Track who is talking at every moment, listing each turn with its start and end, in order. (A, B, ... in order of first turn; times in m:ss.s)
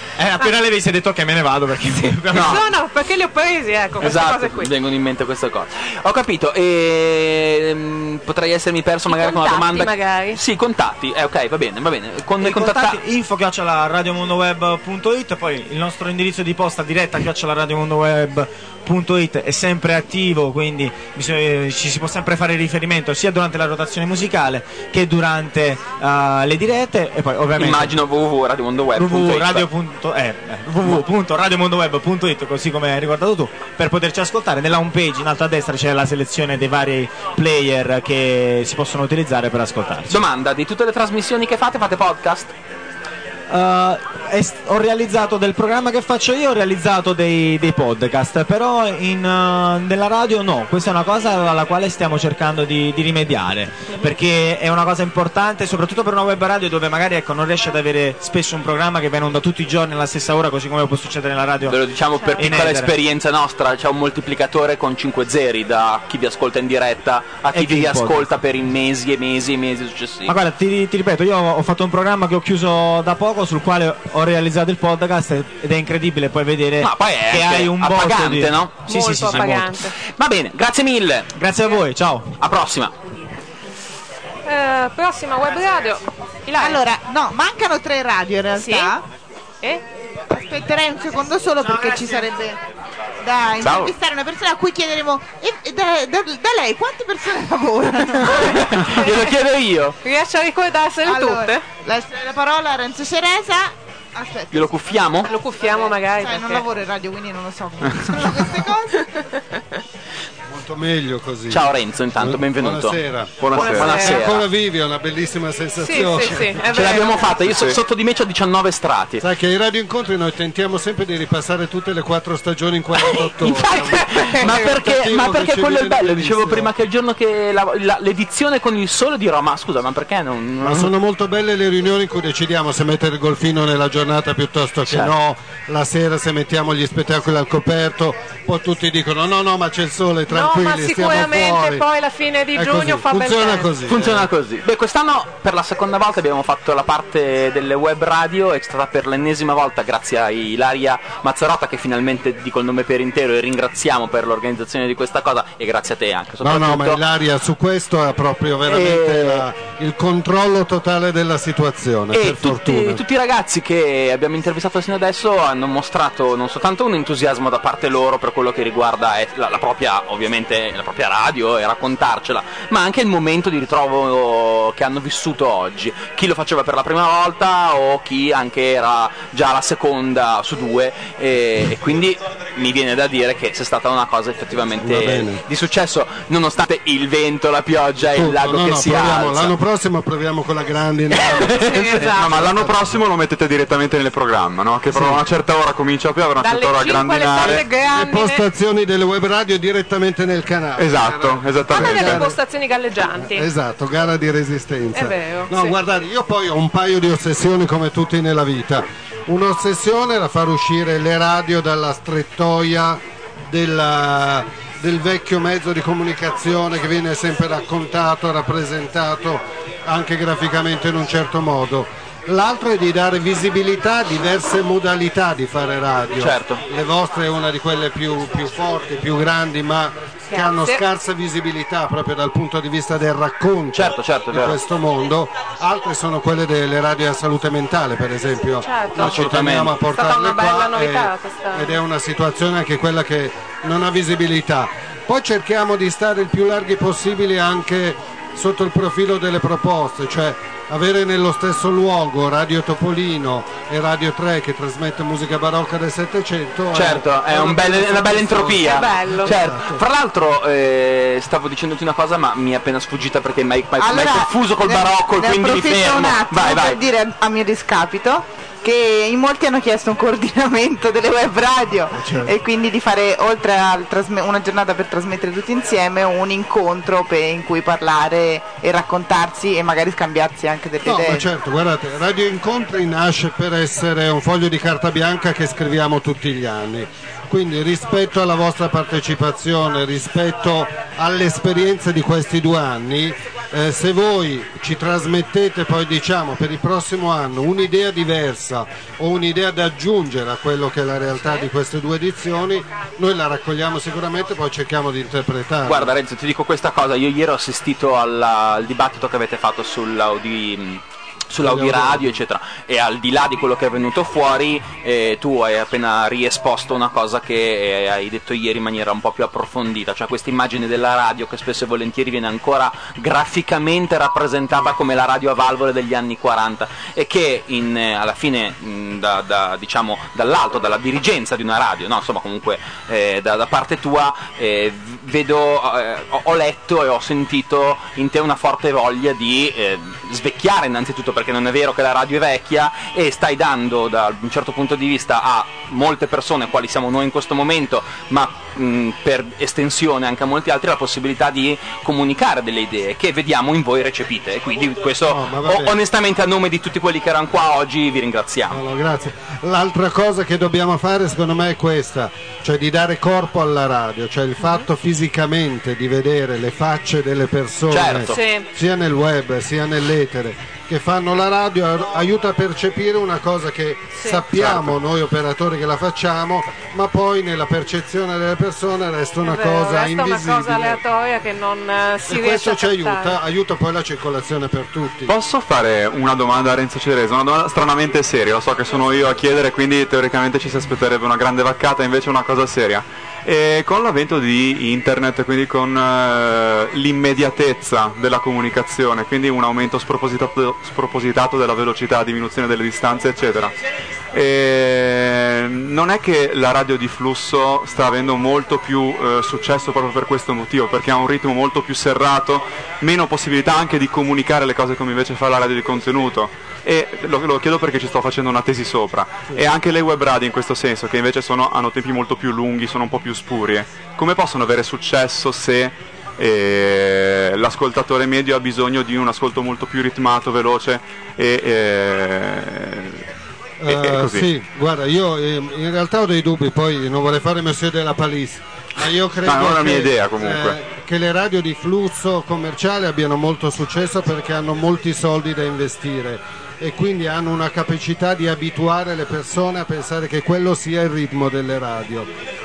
0:00.2-0:02.6 A
0:02.3-0:02.6 B
0:02.3-0:04.7 C
0:04.0-0:13.0 B
0:09.1-0:10.4 C
0:12.4-0:27.9 A
0:27.6-0:29.7 B
0:29.0-0:40.2 A
0:40.1-0:42.5 B
0:43.5-1:01.8 A
1:01.7-1:10.4 B
1:02.2-1:02.5 C
1:02.4-1:02.9 A
1:07.5-1:08.2 A
1:10.3-1:19.7 A
1:16.8-1:21.3 B
1:18.9-1:19.9 C
1:21.3-1:22.4 A
1:22.4-1:22.9 B
1:24.5-1:26.8 C
1:26.6-1:29.0 D
1:28.6-1:29.0 C
1:30.3-1:32.6 D
1:33.2-1:38.8 D
1:33.6-1:33.9 B
1:38.3-1:40.0 B
1:38.8-1:39.2 C
1:40.0-1:41.6 C
1:41.0-1:44.8 D
1:44.5-1:45.3 B
1:45.2-1:46.6 C
1:45.3-1:49.0 D
1:49.0-1:49.2 C
1:50.5-1:56.6 E
1:51.5-1:53.0 B
1:53.4-1:53.9 F
1:53.5-1:54.5 B
1:53.6-1:54.2 C
1:55.8-1:57.3 C
1:56.7-1:59.2 B
1:57.5-1:57.8 F
1:59.2-2:06.7 E
2:03.0-2:10.9 B
2:10.6-2:21.8 E
2:14.9-2:15.1 B
2:20.3-2:23.8 C
2:22.5-2:24.3 E
2:23.9-2:37.0 B
2:36.4-2:43.0 E
2:38.7-2:39.4 B
2:42.1-3:09.6 B
3:04.8-3:05.4 E
3:08.1-3:13.0 E
3:11.4-3:12.4 C
3:12.2-3:17.7 F
3:14.9-3:15.2 E
3:16.4-3:18.4 C
3:17.4-3:22.4 E
3:20.8-3:22.2 F
3:21.7-3:23.5 C
3:23.2-4:19.8 E
3:24.9-3:25.8 C
3:46.2-3:46.6 B
3:50.3-3:50.8 C
3:53.7-3:54.6 B
3:58.6-3:59.3 C
3:59.0-3:59.8 B
3:59.9-4:01.8 C
4:16.7-4:26.8 B
4:18.6-4:19.4 C
4:23.8-4:41.2 D
4:31.9-4:32.3 E
4:40.8-5:05.9 E
5:01.2-5:01.5 C
5:05.7-5:58.6 B
5:11.4-5:12.2 E
5:55.0-5:55.8 E
5:58.5-6:20.8 E
6:04.4-6:04.6 C
6:07.7-6:08.2 B
6:08.1-6:08.5 C
6:14.0-6:14.2 C
6:14.4-6:14.7 B
6:19.2-6:23.2 C
6:22.1-6:25.1 E
6:25.1-6:43.5 F
6:44.1-7:13.0 F
7:13.6-7:32.1 E
7:13.7-7:14.3 F
7:19.2-7:20.6 F